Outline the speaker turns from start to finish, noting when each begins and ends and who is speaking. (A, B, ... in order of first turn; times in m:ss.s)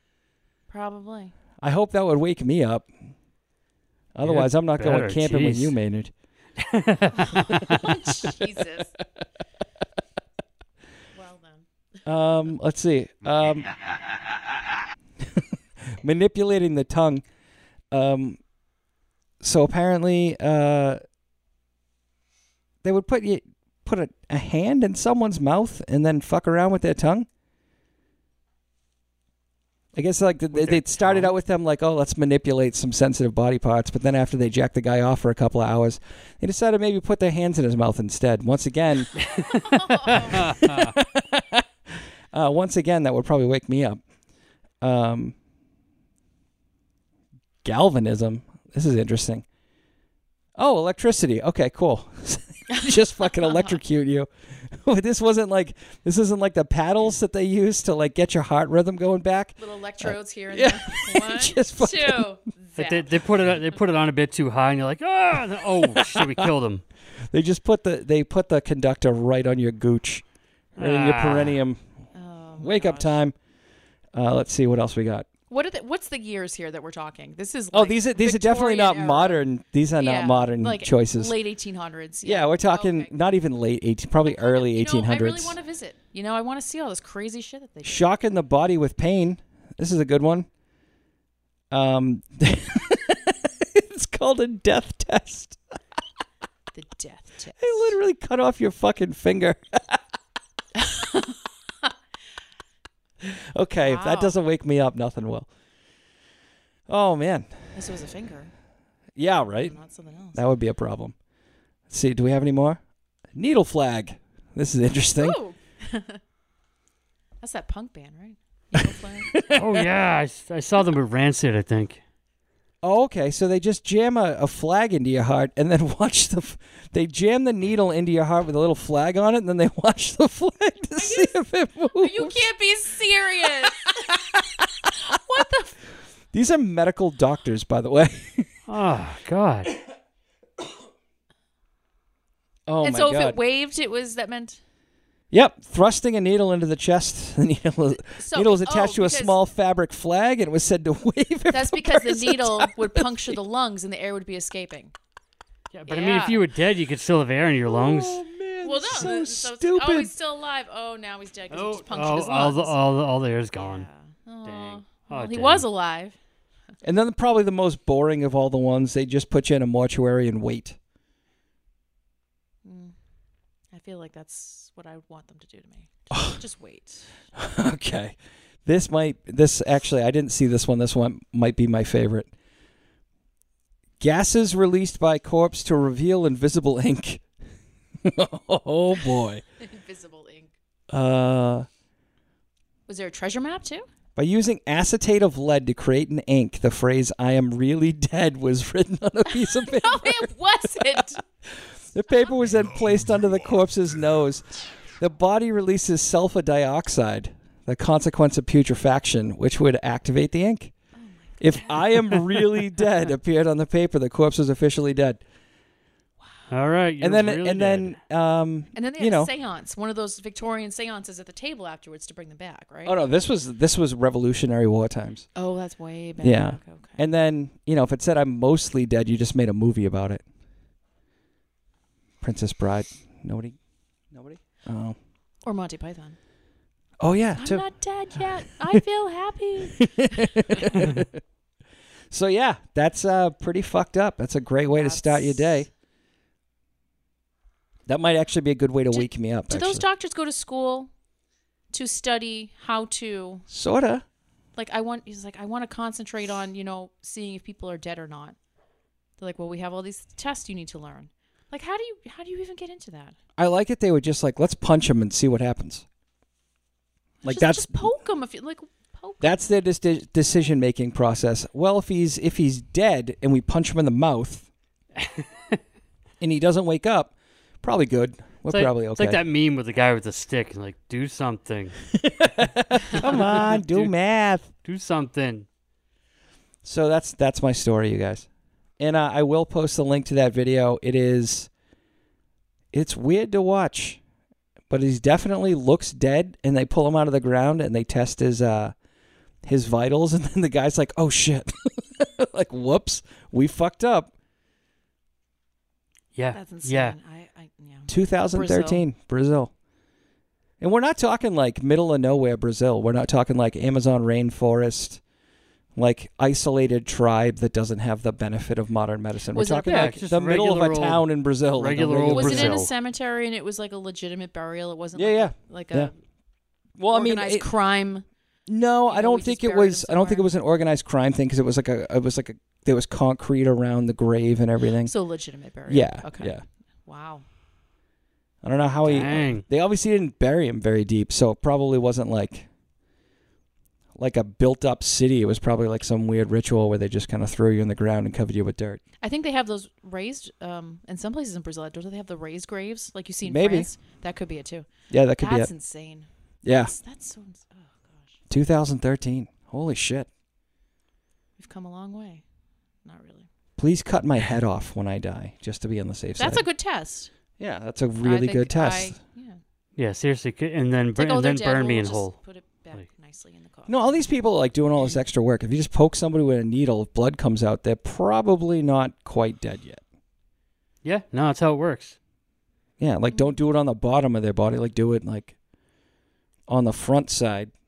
0:00.7-0:01.3 A
0:01.6-0:02.9 B
0:04.2-0:06.1 B
0:04.2-0:05.7 C
0:06.6-0:07.8 C
0:07.2-0:08.9 A
0:11.1-0:11.7 A
0:12.0-0:13.7 B
0:15.2-0:17.2 B
0:17.9-0:18.4 B
0:19.4-0:21.0 B
0:22.8-0:27.3 B
0:30.0-0:39.2 B
0:30.5-0:31.3 C
0:39.2-0:41.0 C
0:39.4-0:40.5 A
0:40.1-0:44.0 B
0:44.8-0:45.4 B
0:47.6-0:49.4 B
0:50.6-1:02.3 B
0:52.7-0:53.8 A
0:59.6-1:03.1 A
1:02.8-1:06.8 C
1:05.8-1:06.5 B
1:07.3-1:10.2 B
1:10.8-1:11.8 B
1:10.8-1:11.6 C
1:12.1-1:13.2 A
1:12.6-1:13.4 B
1:14.1-1:15.3 B
1:15.5-1:19.4 A
1:17.7-1:21.3 B
1:20.0-1:23.1 A
1:22.2-1:25.6 B
1:24.2-1:28.1 A
1:27.8-1:30.5 B
1:31.7-1:35.6 B
1:36.7-1:38.0 A
1:37.6-1:40.0 B
1:40.8-1:41.9 A
1:43.2-1:45.5 B
1:43.8-1:44.4 A
1:46.9-1:47.5 B
1:47.7-1:48.5 A
1:49.2-1:49.8 B
1:49.6-1:50.4 A
1:50.3-1:51.2 B
1:51.9-1:52.8 B
1:53.4-1:55.4 B
1:55.2-1:56.2 A
1:57.4-1:59.4 A
1:59.3-1:59.9 B
1:59.5-2:02.0 C
2:02.8-2:12.5 B
2:11.0-2:11.4 A
2:11.9-2:14.1 A
2:15.0-2:15.8 A
2:16.3-2:18.5 B
2:18.7-2:19.7 C
2:22.7-2:23.4 B
2:22.8-2:24.6 A
2:25.3-2:33.4 B
2:28.1-2:29.4 A
2:31.5-2:34.9 A
2:35.7-2:38.2 C
2:35.9-2:36.4 A
2:37.7-2:40.1 B
2:38.6-2:42.8 A
2:41.5-2:43.9 C
2:43.6-2:46.2 A
2:44.4-2:45.6 C
2:46.8-2:50.8 B
2:52.6-2:52.9 A
2:53.7-2:57.1 A
2:56.1-2:56.4 B
2:57.4-3:02.3 B
3:04.0-3:07.2 B
3:08.0-3:09.4 B
3:09.6-3:10.5 A
3:10.9-3:11.7 B
3:12.9-3:13.9 A
3:14.2-3:24.5 B
3:19.3-3:21.2 A
3:25.0-3:30.7 B
3:31.0-3:31.9 A
3:31.4-3:35.2 B
3:36.5-3:38.0 C
3:37.0-3:39.3 B
3:38.8-3:43.0 A
3:42.8-3:45.3 B
3:45.4-3:47.0 A
3:46.2-3:50.2 B
3:52.2-3:53.6 B
3:54.1-3:55.0 B
3:55.4-3:56.2 A
3:57.0-3:57.6 B
3:57.4-4:00.8 A
3:59.8-4:01.2 B
4:02.1-4:05.7 B
4:04.7-4:05.7 A
4:07.9-4:09.8 B
4:08.9-4:10.9 A
4:11.7-4:13.4 A
4:13.5-4:14.0 B
4:14.6-4:18.4 A
4:19.2-4:23.2 A
4:23.4-4:25.8 B
4:27.2-4:27.9 B
4:27.3-4:29.5 A
4:29.2-4:34.5 B
4:35.0-4:35.6 C
4:36.2-4:39.2 B
4:38.5-4:41.8 C
4:42.0-4:44.5 B
4:42.9-4:43.9 C
4:44.6-4:45.5 C
4:46.6-4:48.3 B
4:48.8-4:51.5 B
4:52.7-4:54.0 B
4:54.7-4:58.8 B
4:59.4-5:04.1 B
5:06.2-5:07.0 C
5:06.3-5:08.9 A
5:07.9-5:09.5 B
5:10.6-5:15.0 B
5:15.8-5:22.6 B
5:19.4-5:20.0 A
5:19.7-5:22.7 C
5:22.1-5:25.9 A
5:25.0-5:25.9 B
5:26.8-5:27.5 B
5:26.9-5:28.1 A
5:28.5-5:34.9 B
5:28.9-5:30.3 A
5:34.8-5:37.2 A
5:35.7-5:36.4 B
5:38.4-5:42.5 B
5:38.8-5:39.4 C
5:44.0-5:48.8 B
5:49.0-5:58.2 A
5:53.2-5:53.7 B
5:54.9-5:55.5 B
5:56.4-5:56.7 B
5:58.3-6:00.1 B
6:01.4-6:02.2 A
6:02.8-6:03.3 A
6:03.6-6:06.4 B
6:06.2-6:07.1 A
6:07.4-6:09.0 B
6:08.0-6:09.4 A
6:09.8-6:12.2 C
6:11.0-6:14.1 A
6:13.7-6:19.8 B
6:20.8-6:22.0 C
6:22.8-6:25.3 B
6:23.1-6:23.4 A
6:26.5-6:27.5 B